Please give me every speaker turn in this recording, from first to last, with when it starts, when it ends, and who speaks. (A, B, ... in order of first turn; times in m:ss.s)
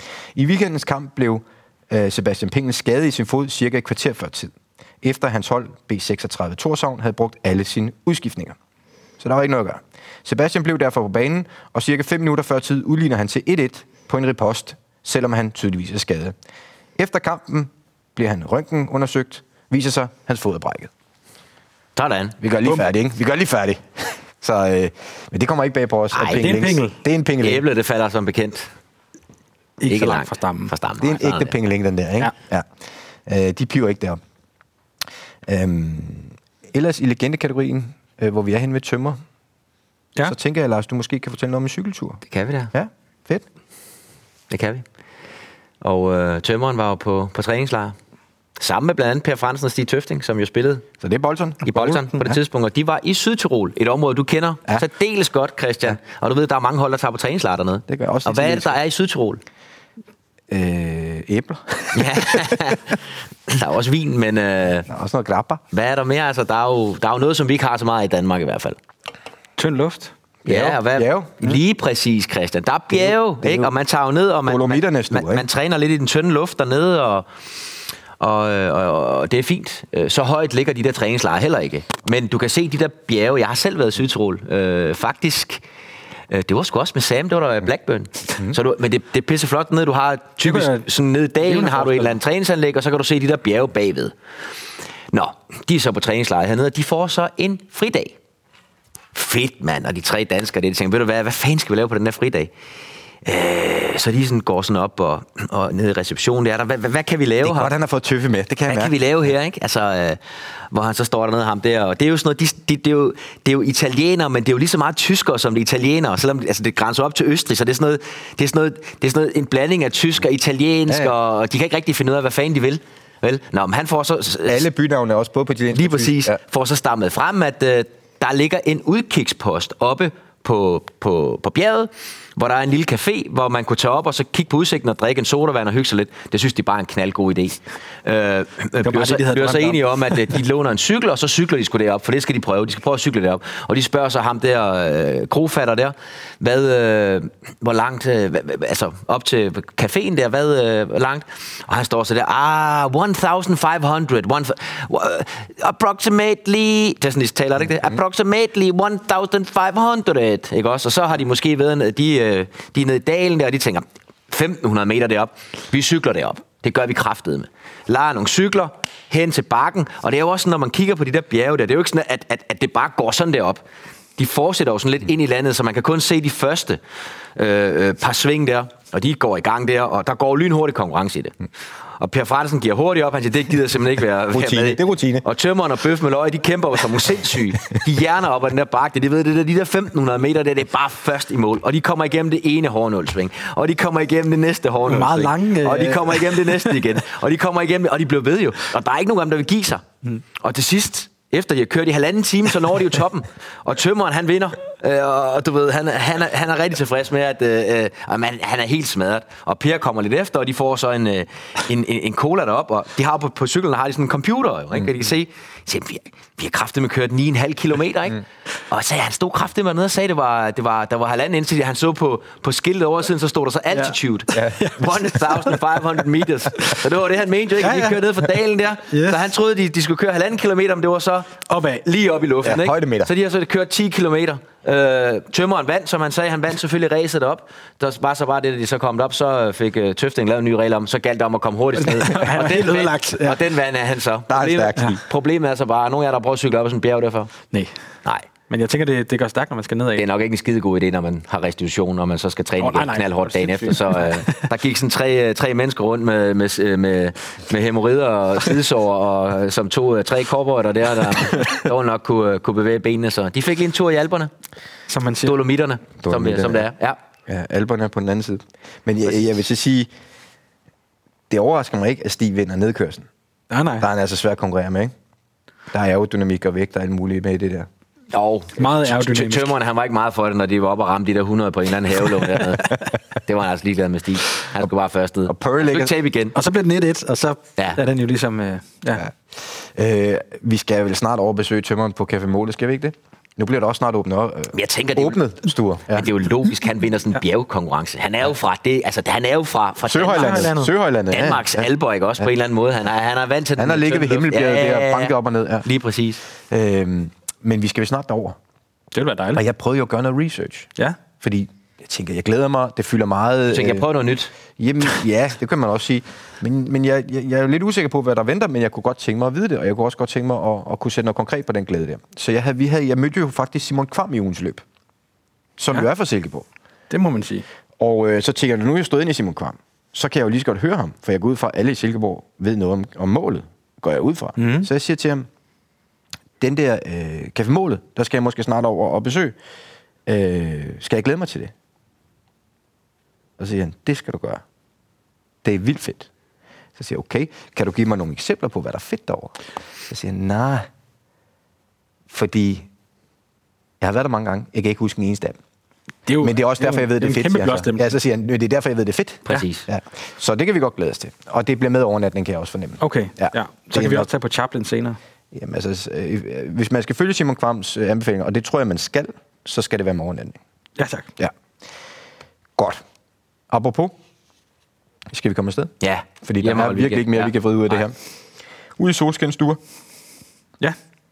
0:00.4-0:08.6 A
0:09.2-0:16.4 A
0:17.0-0:20.9 A
0:22.0-0:22.4 B
0:22.4-0:27.6 A
0:26.1-0:26.8 B
0:26.3-0:27.0 C
0:27.4-0:28.7 B
0:29.8-0:30.7 C
0:29.9-0:31.5 B
0:31.0-0:32.7 A
0:33.3-0:34.2 A
0:35.4-0:39.2 A
0:40.2-0:42.2 A
0:42.3-0:42.7 B
0:42.7-0:43.4 A
0:44.5-0:44.8 B
0:45.8-0:48.0 B
0:48.6-0:50.9 B
0:51.0-0:52.4 A
0:51.6-0:59.4 B
0:57.9-0:58.7 A
1:00.5-1:03.0 A
1:01.9-1:03.0 B
1:03.5-1:04.9 B
1:04.9-1:05.6 A
1:05.7-1:08.8 B
1:09.6-1:10.1 C
1:10.4-1:11.4 A
1:10.4-1:17.3 B
1:12.9-1:13.7 A
1:14.4-1:15.4 A
1:18.2-1:25.6 B
1:26.3-1:34.1 B
1:30.4-1:30.9 C
1:31.4-1:32.2 C
1:35.1-1:38.2 B
1:39.1-1:42.5 B
1:43.2-1:47.7 B
1:47.4-1:48.9 A
1:48.7-1:50.2 B
1:50.7-2:04.6 B
2:00.9-2:01.1 A
2:04.4-2:06.4 A
2:05.7-2:53.6 B
2:18.8-2:20.3 C
2:54.2-2:56.8 B
2:57.4-3:01.4 B
3:02.0-4:07.3 B
3:04.3-3:05.3 A
3:14.9-3:16.8 C
3:44.5-3:45.6 C
3:47.6-3:48.0 C
3:48.9-3:49.2 C
3:51.5-3:51.8 C
3:52.4-3:53.1 A
4:01.8-4:03.4 C
4:04.3-4:05.0 A
4:08.5-4:10.1 C
4:10.0-4:24.3 B
4:12.6-4:14.5 C
4:24.9-4:25.4 C
4:25.2-4:27.0 B
4:26.0-4:26.7 A
4:27.3-4:29.9 A
4:31.3-4:33.1 A
4:33.5-4:33.9 C
4:33.8-4:34.9 A
4:35.7-4:37.7 A
4:38.1-4:46.3 B
4:38.6-4:39.5 C
4:45.3-4:45.9 A
4:46.4-4:49.1 C
4:49.4-4:56.1 A
4:54.5-4:55.4 B
4:55.9-5:00.5 B
4:59.8-5:01.7 A
5:00.1-5:00.7 C
5:01.1-5:05.1 B
5:03.6-5:05.7 A
5:05.6-5:06.2 B
5:06.5-5:08.4 A
5:08.9-5:09.4 C
5:09.3-5:13.9 A
5:13.5-5:14.3 B
5:14.6-5:24.6 A
5:25.6-5:26.4 A
5:26.9-5:27.4 C
5:27.8-5:35.3 A
5:34.4-5:34.7 C
5:36.4-5:39.4 A
5:40.1-5:41.5 A
5:43.4-5:44.4 A
5:45.4-5:46.1 A
5:46.8-5:49.4 A
5:49.9-5:50.7 A
5:52.1-5:52.7 A
5:53.8-5:55.4 A
5:56.1-5:58.0 C
5:56.2-6:04.1 A
5:59.3-5:59.7 B
6:02.8-6:05.0 C
6:05.3-6:10.4 A
6:10.8-6:11.1 C
6:12.6-6:12.8 A
6:13.5-6:14.0 A
6:15.1-6:18.0 A
6:15.8-6:17.8 B
6:18.8-6:19.6 A